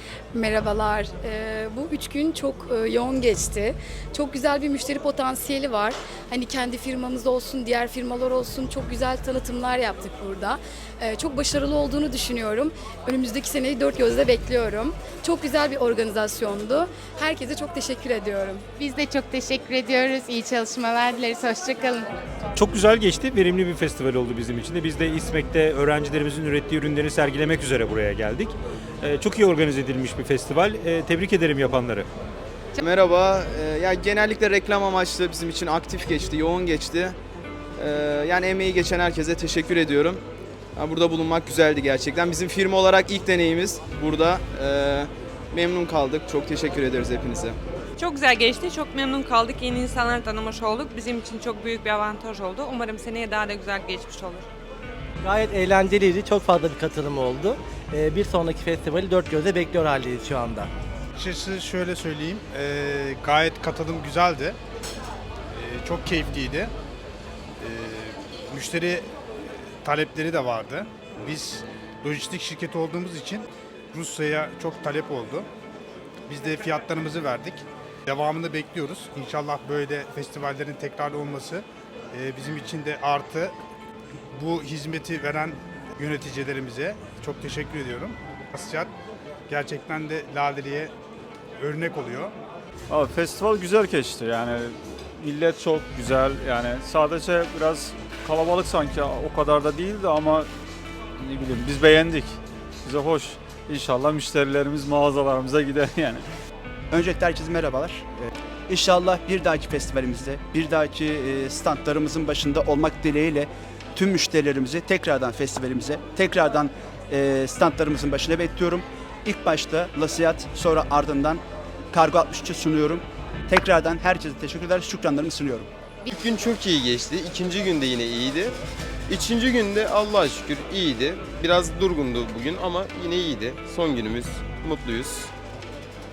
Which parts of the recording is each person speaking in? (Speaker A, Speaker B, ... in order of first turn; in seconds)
Speaker A: 0.3-18.7
Speaker B: 18.8-22.1
Speaker C: 22.6-32.1
Speaker D: 32.8-37.2, 37.8-40.2, 40.8-47.6
Speaker E: 48.0-54.5
Speaker F: 55.2-60.7
Speaker G: 61.2-64.6, 65.5-66.7, 67.6-69.1, 69.8-75.5, 76.3-83.5, 84.3-88.9, 89.5-90.9, 91.6-92.3
Speaker H: 92.9-100.5, 101.2-106.2
Speaker I: 106.9-108.1, 108.7-125.7
Speaker J: 126.1-128.6, 129.1-135.3